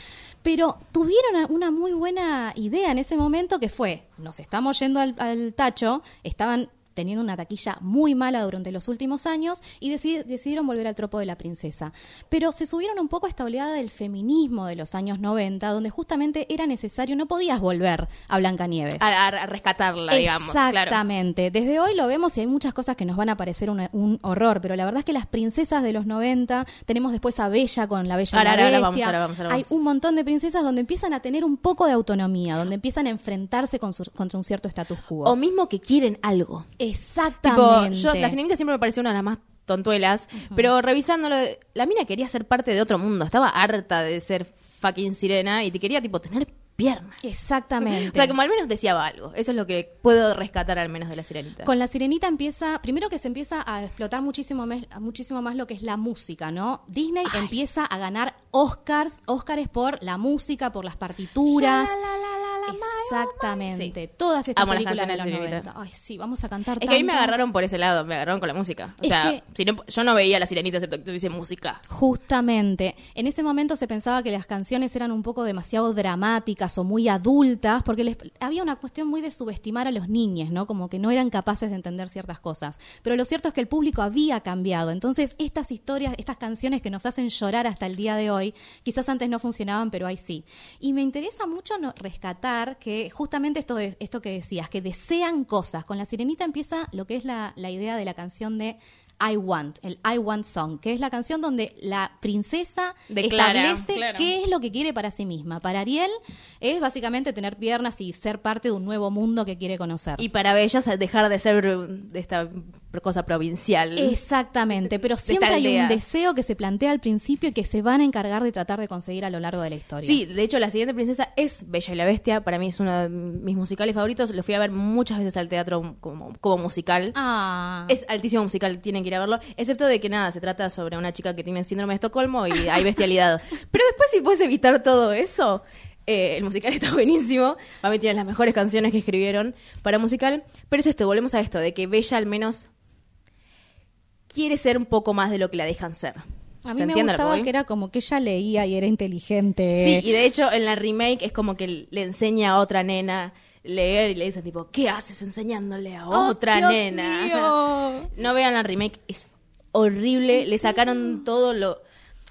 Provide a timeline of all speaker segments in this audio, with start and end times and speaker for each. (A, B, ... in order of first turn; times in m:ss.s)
0:00.4-0:19.0 A
0:19.0-0:21.0 B
0:20.1-0:35.3 A
0:28.3-0:29.8 B
0:35.2-0:36.7 B
0:36.8-0:38.3 A
0:37.4-0:47.2 B
0:47.2-0:48.3 A
0:47.9-0:51.7 B
0:51.6-1:01.9 A
1:01.5-1:03.9 B
1:02.7-1:07.3 A
1:04.6-1:05.7 B
1:06.8-1:11.8 B
1:09.0-1:09.4 A
1:11.9-1:50.2 A
1:43.1-1:44.3 B
1:50.2-1:54.2 B
1:54.0-2:00.2 A
1:54.8-1:56.0 B
2:00.0-2:07.1 B
2:07.1-2:08.0 A
2:07.9-2:22.7 B
2:24.3-2:26.2 B
2:26.6-2:30.0 A
2:26.7-2:27.5 B
2:29.8-2:37.6 B
2:36.1-2:38.1 A
2:38.1-2:41.8 B
2:40.6-2:41.2 A